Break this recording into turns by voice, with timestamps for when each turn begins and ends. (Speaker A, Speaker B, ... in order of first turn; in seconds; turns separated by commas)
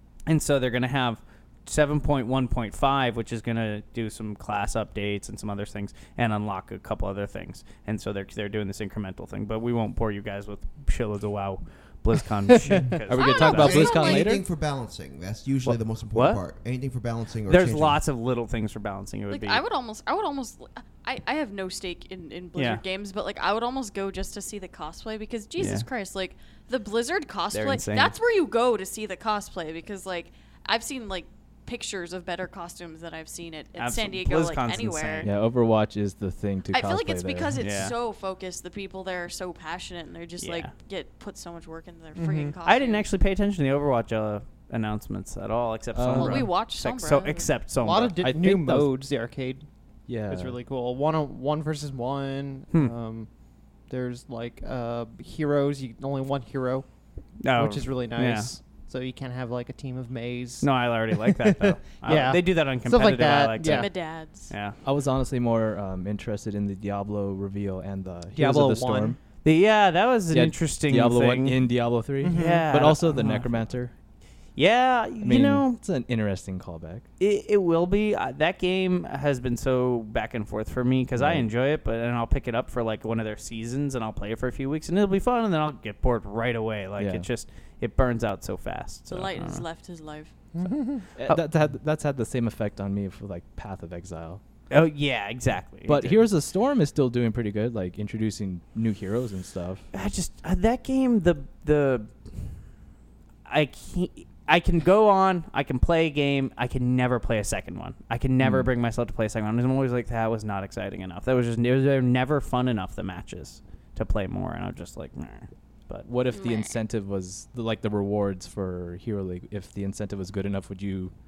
Speaker A: 0.3-13.8, Speaker B: 13.1-14.4, Speaker C: 13.1-14.3, Speaker D: 13.4-18.0, Speaker A: 16.1-16.4, Speaker A: 17.5-19.6, Speaker C: 19.3-35.3, Speaker A: 22.6-22.8, Speaker A: 25.6-25.9, Speaker A: 27.5-28.1, Speaker A: 33.8-35.3, Speaker B: 35.2-37.9, Speaker C: 36.7-43.1, Speaker A: 37.6-38.0, Speaker A: 40.4-40.7, Speaker E: 42.2-42.5, Speaker A: 42.6-48.1, Speaker B: 45.9-46.5, Speaker C: 46.1-47.5, Speaker E: 47.8-49.7, Speaker B: 48.2-48.9, Speaker B: 50.1-50.6, Speaker E: 50.2-53.3, Speaker E: 53.9-56.9, Speaker A: 57.4-58.5, Speaker E: 57.5-63.9, Speaker A: 60.6-64.0, Speaker C: 63.6-64.5, Speaker A: 64.5-64.8, Speaker B: 64.8-69.2, Speaker E: 68.3-69.2, Speaker A: 69.4-71.6, Speaker B: 70.3-73.9, Speaker E: 72.2-73.4, Speaker A: 72.2-73.5, Speaker A: 74.6-75.8, Speaker B: 75.2-77.1, Speaker A: 77.2-89.7, Speaker B: 81.2-81.5, Speaker B: 87.0-87.3, Speaker C: 89.1-90.3, Speaker E: 90.5-91.1, Speaker B: 91.2-94.4, Speaker A: 94.7-96.3, Speaker B: 95.8-99.9, Speaker A: 99.9-102.1, Speaker A: 103.5-116.1, Speaker B: 108.4-108.7, Speaker B: 116.0-121.1, Speaker C: 116.3-116.8